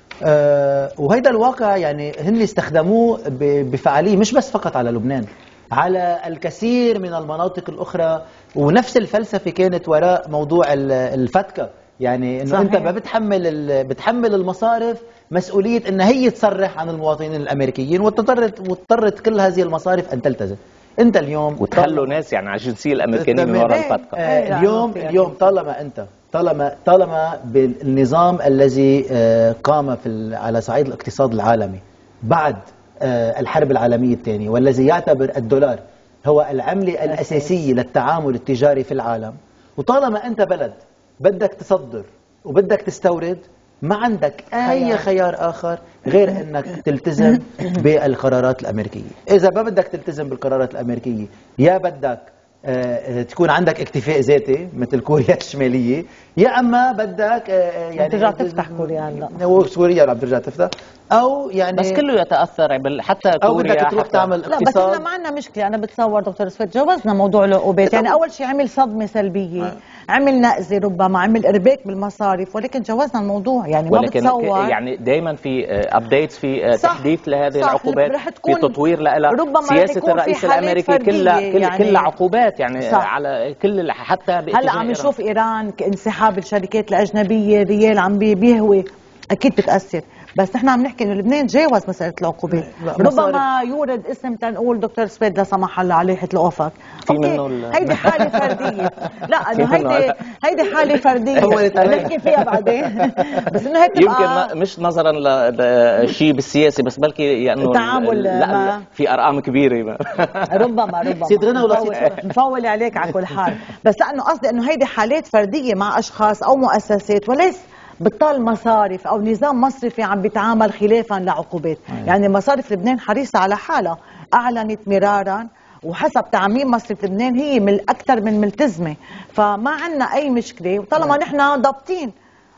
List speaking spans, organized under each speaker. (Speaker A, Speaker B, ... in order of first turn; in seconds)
Speaker A: 0.3-22.1, 23.1-62.0, 63.4-65.0, 92.5-93.4, 97.9-98.3, 101.4-102.2, 111.3-112.2
Speaker B: 12.5-12.9, 23.7-25.4, 37.1-37.7, 44.6-45.0, 58.0-59.4, 64.5-74.8, 76.8-78.8, 79.3-82.1, 82.8-83.1, 84.5-104.5, 107.6-108.8, 110.5-132.1
Speaker C: 21.6-24.1, 61.8-64.7, 73.9-85.1, 97.1-98.8, 99.5-100.2, 101.4-102.1, 103.9-110.7, 111.8-112.1